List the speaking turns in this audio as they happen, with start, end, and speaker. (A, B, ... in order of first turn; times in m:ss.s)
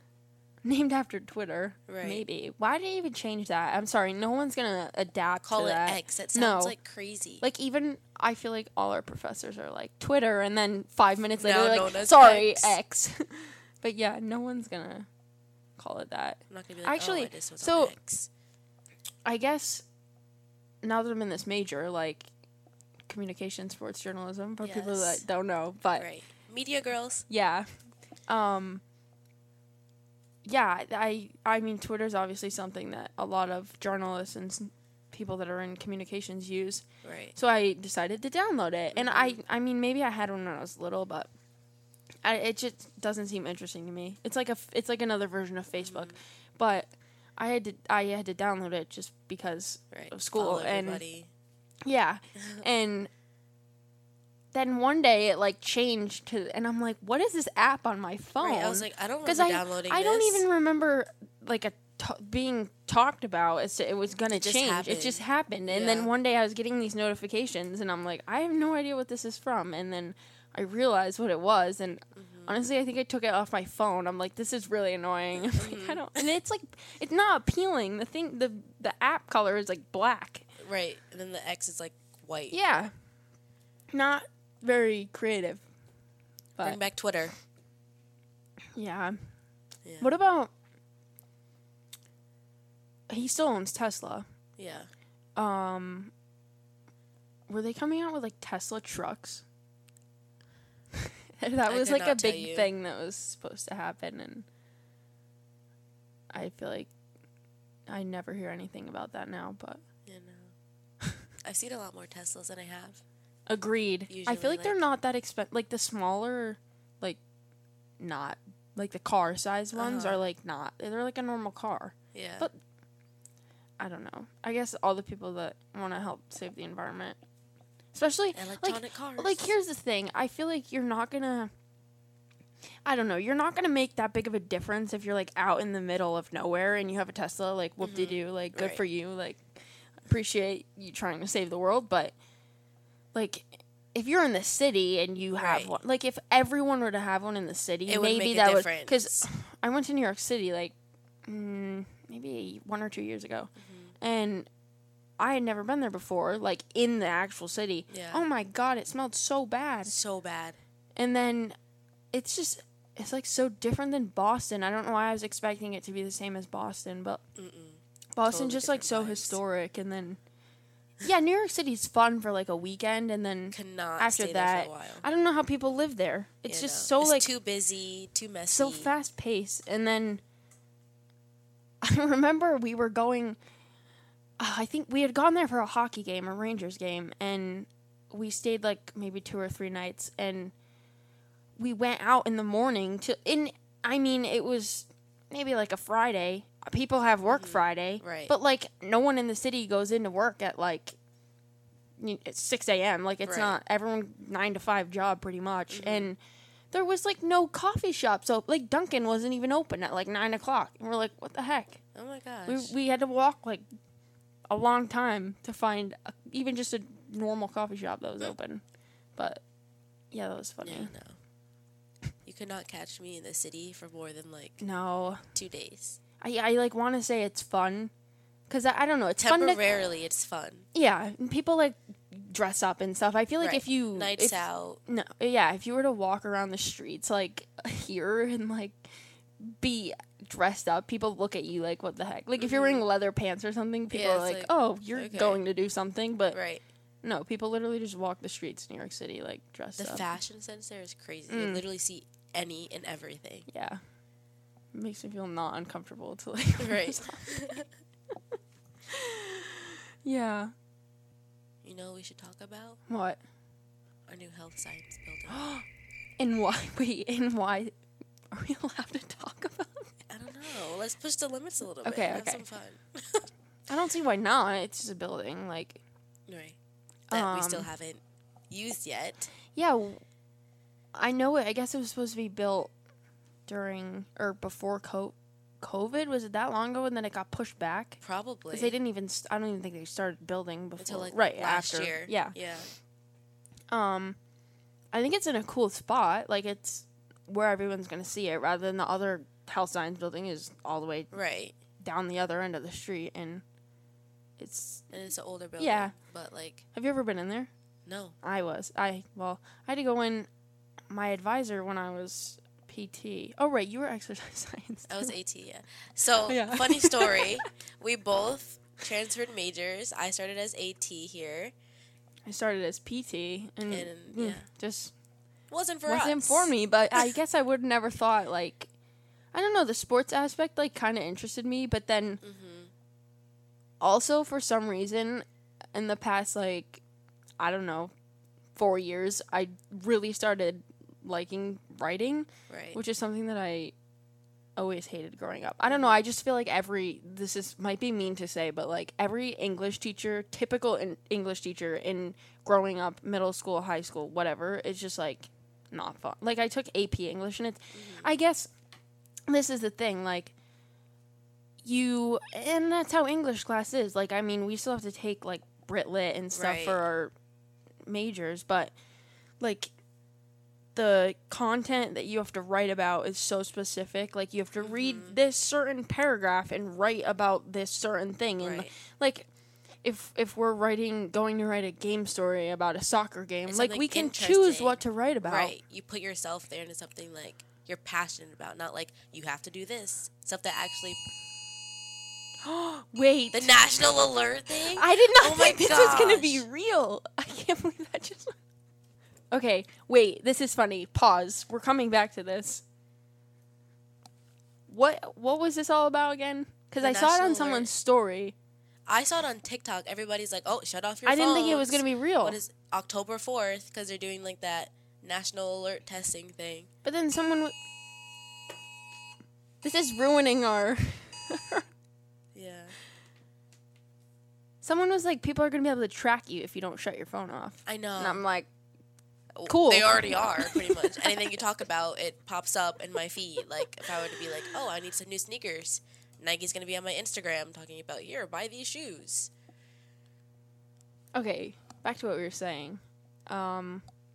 0:00.6-0:06.7 A
0:01.9-0:02.2 B
0:05.4-0:07.4 B
0:07.4-0:15.1 A
0:11.4-0:12.8 B
0:15.8-0:17.9 A
0:16.5-0:18.3 B
0:19.2-0:19.8 A
0:20.8-0:22.3 A
0:23.1-0:26.1 A
0:24.6-0:25.2 B
0:26.0-0:27.3 B
0:27.3-0:27.7 A
0:28.3-0:28.8 A
0:30.4-0:36.8 A
0:37.0-0:37.3 B
0:37.4-0:41.3 A
0:38.9-0:39.4 B
0:42.2-0:51.0 A
0:45.8-0:46.2 B
0:49.9-0:51.3 B
0:51.8-0:53.1 A
0:52.4-0:52.6 B
0:54.5-1:20.4 A
0:58.4-1:00.4 B
1:04.3-1:06.1 B
1:12.1-1:12.6 B
1:15.4-1:16.2 B
1:20.6-1:22.6 B
1:22.5-1:22.9 A
1:23.9-1:25.6 A
1:26.6-1:27.3 B
1:28.8-1:29.2 A
1:29.8-1:30.2 B
1:30.0-1:30.5 A
1:33.1-1:34.2 A
1:34.6-1:34.9 B
1:35.4-1:36.1 A
1:37.5-1:39.4 A
1:41.0-1:44.4 A
1:41.7-1:42.7 B
1:46.3-1:46.9 A
1:47.9-1:49.8 A
1:50.0-1:50.5 B
1:51.4-1:53.0 B
1:53.5-1:57.2 A
1:54.1-1:54.8 B
1:58.0-2:02.5 A
1:59.7-2:00.2 B
2:02.1-2:02.5 B
2:03.8-2:07.2 A
2:07.9-2:11.5 A
2:08.3-2:09.5 B
2:12.8-2:19.5 A
2:17.8-2:18.8 B
2:20.0-2:22.1 A
2:23.1-2:30.7 A
2:25.4-2:25.8 B
2:27.9-2:29.2 B
2:31.2-2:34.5 A
2:33.6-2:33.9 B
2:35.2-2:39.9 A
2:37.9-2:38.2 B
2:39.8-2:40.6 B
2:41.0-2:41.6 A
2:42.1-2:47.2 A
2:47.4-2:49.4 B
2:48.1-2:50.2 A
2:51.0-2:57.3 A
2:53.5-2:55.0 B
2:56.5-2:58.9 B
2:58.5-3:00.2 A
3:01.8-3:03.4 A
3:04.4-3:10.5 A
3:11.6-3:21.0 A
3:17.3-3:18.3 B
3:22.0-3:26.2 A
3:23.2-3:23.6 B
3:25.7-3:26.1 B
3:26.7-3:31.8 A
3:31.9-3:32.7 B
3:32.4-3:33.6 A
3:34.5-3:38.6 A
3:39.2-3:39.4 A
3:40.1-3:40.9 A
3:40.6-3:41.2 B
3:42.2-3:44.6 B
3:44.6-3:45.3 A
3:45.3-3:46.0 B
3:46.2-3:47.9 A
3:48.5-3:49.6 A
3:49.2-3:50.7 B
3:50.7-4:06.4 A
3:53.4-3:54.8 B
4:02.4-4:02.8 B
4:03.9-4:05.4 B
4:06.3-4:06.6 B
4:07.0-4:10.0 A
4:09.8-4:13.5 B
4:11.3-4:11.6 A
4:13.5-4:13.8 A
4:14.7-4:17.4 A
4:16.6-4:17.7 B
4:18.9-4:20.5 A
4:21.6-4:22.8 B
4:22.9-4:23.2 A
4:24.1-4:25.4 B
4:25.3-4:25.6 A
4:26.2-4:27.8 A
4:28.3-4:29.9 A
4:30.1-4:33.2 B
4:31.8-4:32.4 A
4:33.7-4:35.8 A
4:36.3-4:36.6 B
4:37.1-4:37.7 A
4:37.1-4:39.3 B
4:39.5-4:40.0 A
4:40.9-4:42.7 A
4:43.5-4:48.0 A
4:48.0-4:48.8 B
4:48.5-4:52.3 A
4:50.8-4:52.7 B
4:53.7-4:54.2 A
4:54.9-5:01.1 A
5:01.1-5:01.5 B
5:01.8-5:03.4 A
5:04.4-5:04.9 A
5:04.9-5:06.6 B
5:05.6-5:05.9 A
5:06.7-5:07.5 A
5:07.8-5:08.2 B
5:08.2-5:10.3 A
5:10.9-5:15.1 A
5:14.9-5:21.5 B
5:16.2-5:17.4 A
5:22.2-5:24.9 A
5:23.7-5:24.4 B
5:25.5-5:27.1 B
5:25.8-5:28.7 A
5:29.3-5:32.2 A
5:32.2-5:32.7 B
5:33.8-5:36.8 A
5:37.4-5:37.9 A
5:38.5-5:43.7 A
5:42.5-5:42.8 B
5:44.6-5:58.5 A
5:45.6-5:46.0 B
5:57.7-5:58.1 B
5:59.3-6:00.3 A
6:01.6-6:07.1 A
6:06.3-6:06.8 B
6:07.9-6:08.7 A
6:09.4-6:09.7 A
6:10.7-6:19.3 A
6:14.6-6:15.2 B
6:18.4-6:18.7 B
6:19.8-6:25.5 A
6:23.5-6:31.0 B
6:32.4-6:33.6 A
6:33.3-6:36.4 B
6:34.7-6:38.4 A
6:39.3-6:42.6 A
6:44.7-6:48.3 A
6:46.8-6:47.7 B
6:48.9-6:56.7 B
6:51.0-6:52.4 A
6:56.8-6:57.5 A
6:59.6-7:01.6 A
7:02.3-7:02.7 B
7:04.6-7:08.5 A
7:07.6-7:08.2 B
7:09.4-7:19.3 B
7:09.4-7:11.2 A
7:21.1-7:23.8 A